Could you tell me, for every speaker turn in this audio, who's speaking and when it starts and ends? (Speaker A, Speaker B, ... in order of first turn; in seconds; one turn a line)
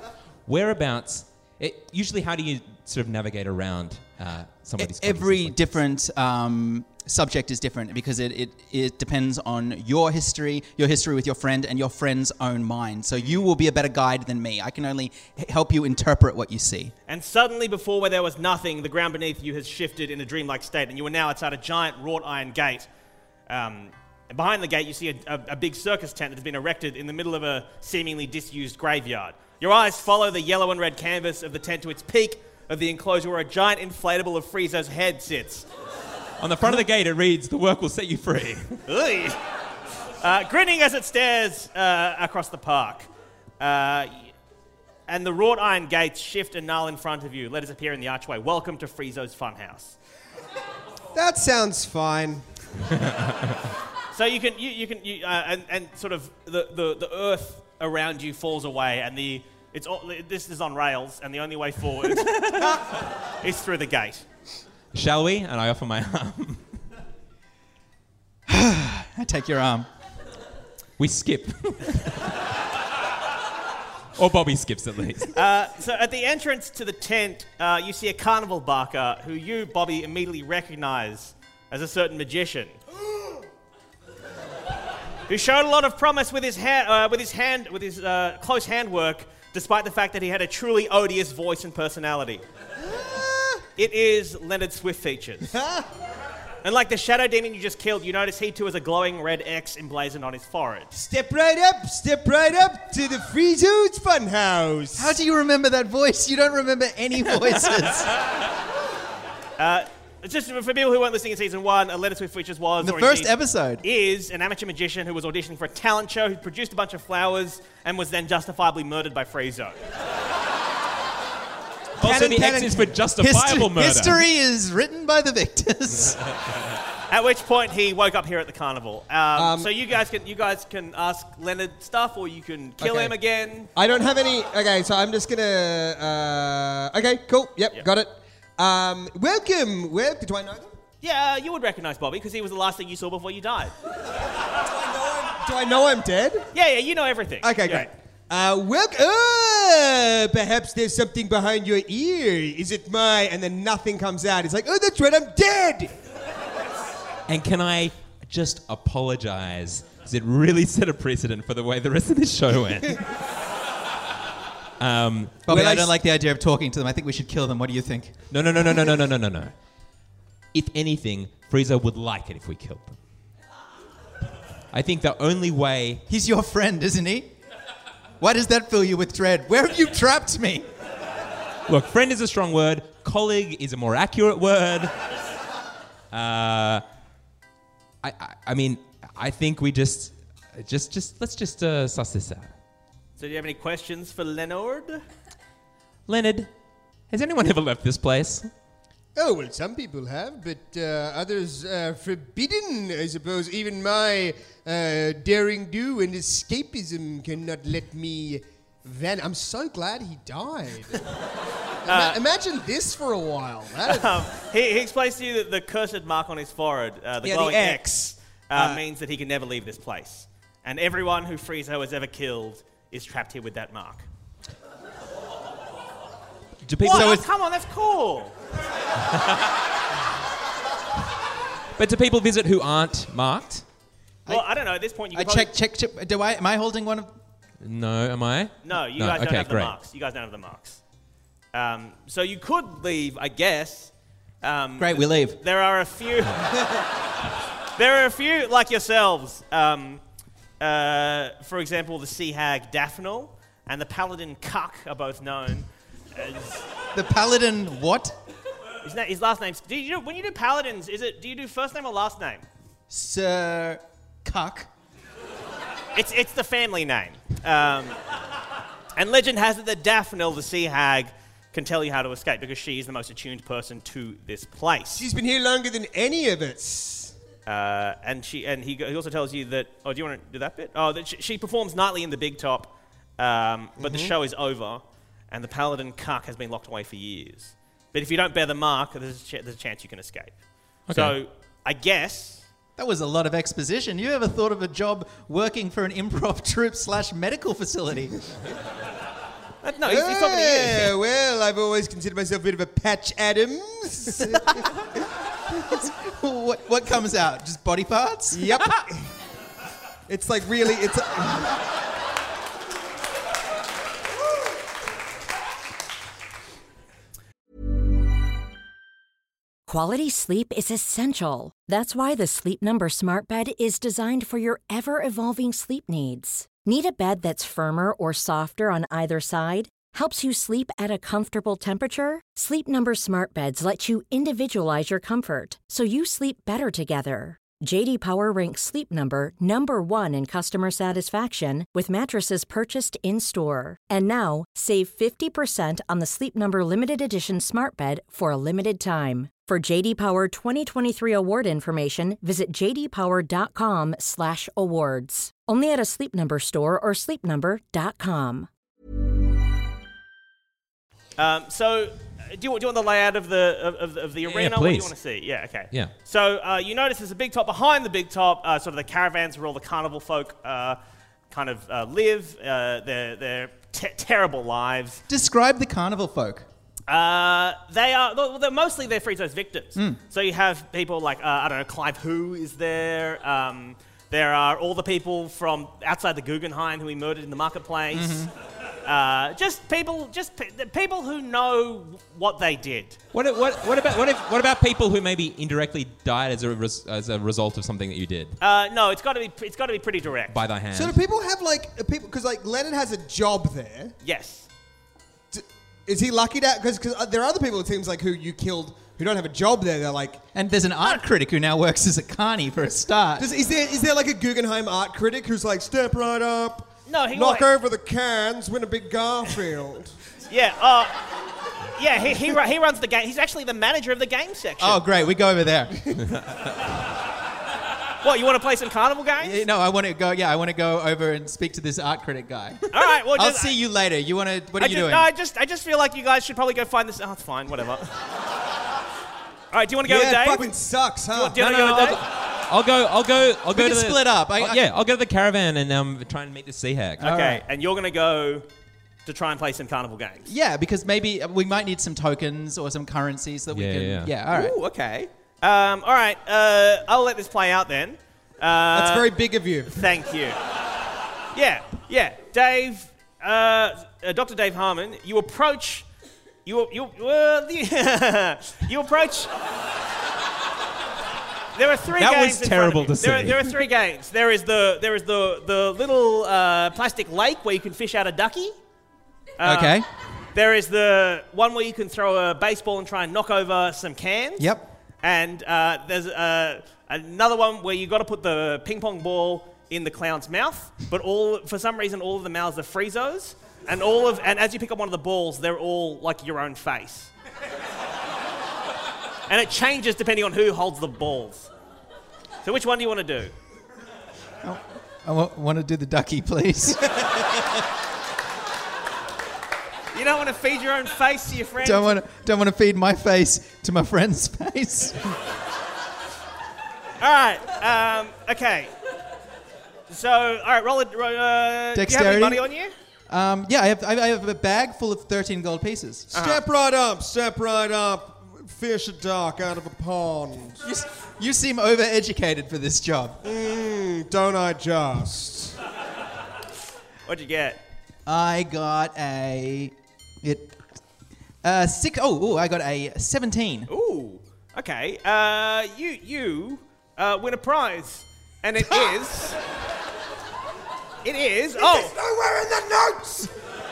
Speaker A: 0.5-5.7
Speaker B: 4.8-16.9
Speaker C: 17.1-22.9
Speaker C: 23.5-35.6
Speaker A: 36.4-38.8
Speaker C: 38.9-39.4
Speaker C: 40.2-43.1
Speaker C: 43.6-44.3
Speaker C: 45.1-50.0
Speaker D: 51.1-52.5
Speaker C: 54.1-64.2
Speaker A: 64.9-66.7
Speaker B: 68.5-69.9
Speaker A: 71.0-72.3
Speaker A: 74.2-75.3
Speaker C: 75.3-82.7
Speaker C: 85.3-92.4
Speaker D: 92.8-93.7
Speaker C: 93.8-95.5
Speaker D: 95.5-95.9
Speaker C: 96.6-100.9
Speaker D: 100.9-105.2
Speaker B: 105.0-108.1
Speaker C: 109.6-119.8
Speaker B: 112.8-113.8
Speaker A: 122.0-124.2
Speaker D: 122.0-122.9
Speaker B: 123.2-126.2
Speaker C: 127.1-133.7
Speaker D: 129.3-129.7
Speaker D: 132.8-133.1
Speaker D: 133.7-140.7
Speaker C: 141.0-143.7
Speaker D: 144.6-146.5
Speaker C: 146.5-147.9
Speaker D: 147.4-155.9
Speaker A: 157.3-163.1
Speaker A: 164.8-165.4
Speaker B: 165.4-168.2
Speaker D: 165.5-165.9
Speaker A: 168.3-169.5
Speaker A: 170.5-172.9
Speaker A: 174.7-176.0
Speaker B: 176.1-177.3
Speaker B: 178.2-180.7
Speaker A: 181.7-184.9
Speaker A: 186.1-186.8
Speaker A: 188.0-192.5
Speaker C: 193.2-195.0
Speaker A: 196.1-196.5
Speaker A: 197.1-198.5
Speaker D: 199.2-211.0
Speaker D: 211.8-214.3
Speaker C: 211.9-212.2
Speaker C: 213.8-224.1
Speaker D: 217.2-218.8
Speaker A: 226.6-227.2
Speaker C: 226.8-228.3
Speaker B: 226.9-227.2
Speaker A: 229.0-229.4
Speaker A: 231.8-233.6
Speaker C: 234.3-235.5
Speaker B: 235.1-237.1
Speaker A: 237.6-239.7
Speaker C: 238.6-240.8
Speaker C: 241.5-246.8
Speaker B: 244.8-245.4
Speaker C: 247.8-250.0
Speaker C: 250.6-256.6
Speaker B: 256.9-258.1
Speaker C: 258.8-262.4
Speaker B: 262.9-264.7
Speaker C: 265.9-268.0
Speaker C: 268.9-275.1
Speaker D: 274.9-277.1
Speaker C: 277.4-290.3
Speaker D: 283.8-284.1
Speaker A: 290.9-291.2
Speaker C: 290.9-292.4
Speaker B: 292.8-298.2
Speaker C: 299.6-300.9
Speaker D: 299.8-304.6
Speaker B: 305.7-308.5
Speaker D: 308.3-309.1
Speaker D: 310.1-311.6
Speaker E: 319.7-358.5
Speaker C: 361.2-370.8
Speaker A: 364.2-364.9
Speaker C: 371.3-375.0
Speaker B: 375.1-376.5
Speaker C: 376.9-388.3
Speaker B: 387.9-388.3
Speaker C: 388.8-393.0
Speaker A: 393.1-398.4
Speaker C: 398.4-400.4
Speaker A: 400.3-400.9
Speaker D: 400.7-403.9
Speaker C: 404.0-404.5
Speaker D: 405.3-410.2
Speaker B: 410.3-413.3
Speaker D: 413.2-419.9
Speaker C: 416.9-417.5
Speaker C: 420.3-421.0
Speaker C: 421.8-424.8
Speaker B: 424.6-426.0
Speaker C: 428.0-429.4
Speaker B: 429.2-435.1
Speaker C: 432.7-433.6
Speaker C: 434.6-437.9
Speaker C: 439.5-440.5
Speaker D: 439.8-441.7
Speaker C: 441.1-442.0
Speaker A: 441.7-447.1
Speaker B: 443.5-444.6
Speaker B: 447.0-447.4
Speaker C: 447.0-448.4
Speaker C: 449.1-450.3
Speaker B: 450.2-454.6
Speaker A: 453.5-454.1
Speaker C: 454.3-459.1
Speaker D: 458.7-459.8
Speaker C: 459.7-460.4
Speaker C: 461.3-465.9
Speaker C: 466.4-469.3
Speaker C: 471.6-478.5
Speaker A: 471.9-473.5
Speaker C: 479.4-479.8
Speaker B: 479.4-479.9
Speaker C: 480.3-484.5
Speaker B: 484.4-484.7
Speaker C: 485.0-497.1
Speaker C: 499.3-501.5
Speaker C: 502.4-503.3
Speaker B: 504.4-506.9
Speaker C: 509.9-512.0
Speaker B: 511.6-515.0
Speaker C: 517.0-518.7
Speaker C: 519.9-522.7
Speaker B: 521.7-522.4
Speaker B: 523.1-526.1
Speaker D: 526.1-530.6
Speaker C: 526.1-526.4
Speaker B: 530.6-533.2
Speaker D: 533.2-535.6
Speaker C: 537.0-537.6
Speaker B: 538.0-540.6
Speaker B: 541.4-543.7
Speaker C: 543.7-549.4
Speaker C: 551.0-551.9
Speaker D: 551.6-553.3